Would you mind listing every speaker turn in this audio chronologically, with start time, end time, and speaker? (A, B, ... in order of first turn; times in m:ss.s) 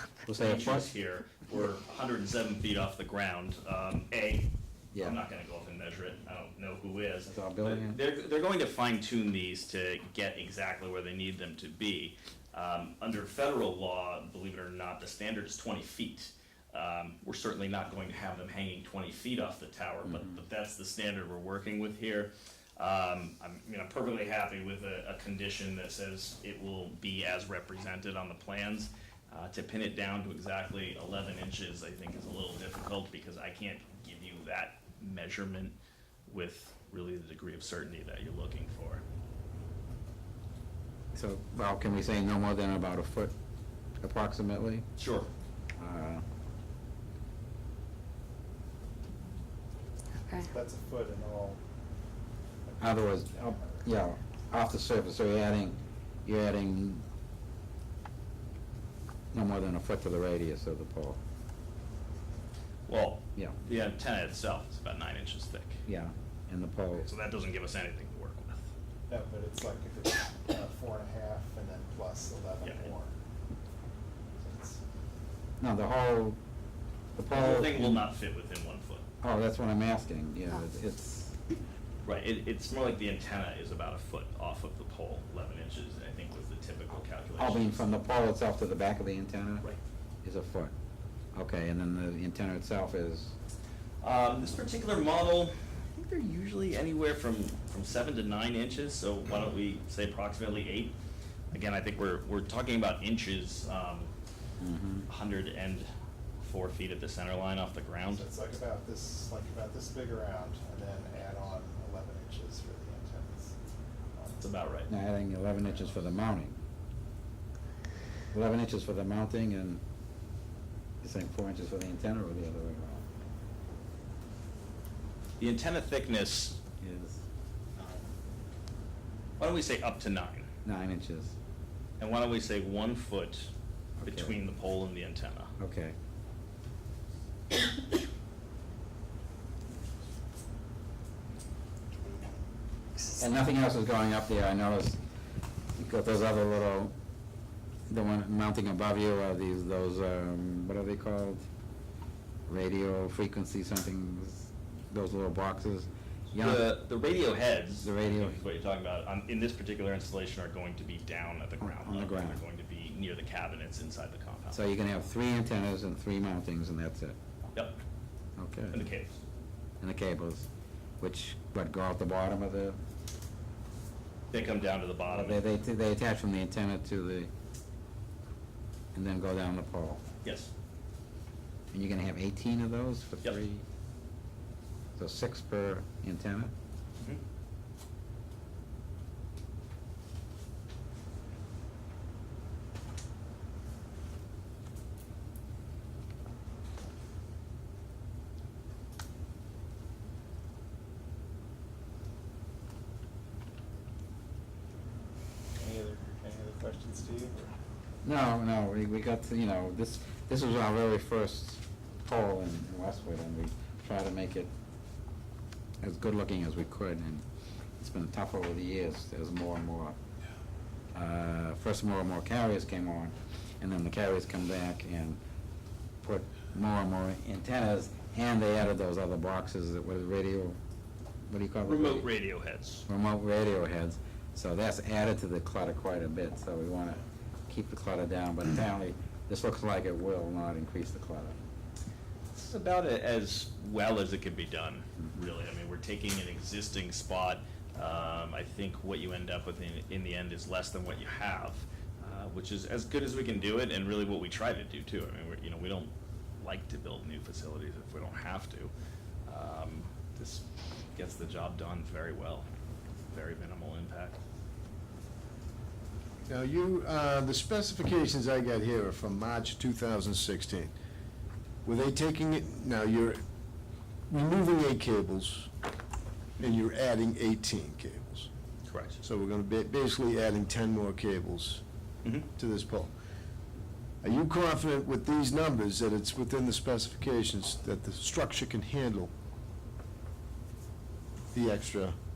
0:00.3-0:00.9 A
0:00.3-0:35.8 B
0:04.9-0:05.2 A
0:07.3-0:08.0 A
0:20.0-0:20.4 A
0:36.3-0:39.0 B
0:41.1-0:43.3 A
0:44.0-0:44.9 A
0:45.0-0:45.3 B
0:45.8-0:46.2 A
0:50.5-0:51.6 C
0:52.7-0:53.9 C
0:52.8-0:57.0 A
0:59.3-1:01.2 A
1:02.9-1:05.8 B
1:05.9-1:07.1 A
1:07.0-1:08.7 B
1:09.1-1:13.1 C
1:12.6-1:12.9 B
1:14.4-1:14.8 C
1:15.6-1:16.4 A
1:17.2-1:18.1 A
1:17.3-1:19.0 B
1:19.2-1:21.4 A
1:22.0-1:27.8 B
1:27.4-1:29.7 A
1:30.2-1:30.7 A
1:31.3-1:33.3 A
1:34.0-1:41.0 B
1:41.5-1:44.1 B
1:44.6-1:45.1 A
1:45.1-1:45.9 B
1:46.4-1:48.3 B
1:48.1-1:53.6 C
1:54.2-1:54.4 C
1:54.4-1:54.9 B
1:54.9-1:56.6 A
1:58.3-1:59.8 A
2:01.0-2:03.0 A
2:05.4-2:06.6 B
2:06.8-2:07.2 A
2:09.4-2:10.5 B
2:10.6-2:11.3 A
2:12.0-2:13.5 B
2:14.0-2:14.4 A
2:14.0-2:15.5 B
2:15.6-2:16.0 A
2:23.2-2:25.0 A
2:25.8-2:26.9 A
2:27.9-2:31.5 A
2:32.5-2:36.8 A
2:36.4-2:44.6 B
2:37.8-2:38.4 A
2:41.6-2:42.4 A
2:44.5-2:47.2 A
2:48.4-2:48.9 A
2:48.7-2:49.2 B
2:49.8-2:50.5 A
2:51.0-2:52.8 A
2:54.3-2:55.4 B
2:55.1-2:57.3 A
2:58.9-3:00.0 A
3:00.2-3:00.5 B
3:01.7-3:03.6 A
3:05.0-3:06.5 A
3:25.6-3:27.5 C
3:28.0-3:34.5 A
3:35.8-3:37.2 A
3:37.8-3:40.0 A
3:41.0-3:45.2 A
3:46.0-3:50.6 A
3:51.3-3:52.1 A
3:51.6-3:52.9 B
3:52.9-4:01.4 A
4:02.3-4:18.7 B
4:19.3-4:22.5 B
4:23.1-4:24.2 B
4:26.3-4:30.7 D
4:31.6-4:33.2 D
4:34.1-4:35.5 D
4:36.4-4:38.3 D
4:38.7-4:39.0 B
4:39.0-4:41.6 D
4:42.4-4:42.9 D
4:44.0-4:49.1 D
4:51.3-4:52.0 D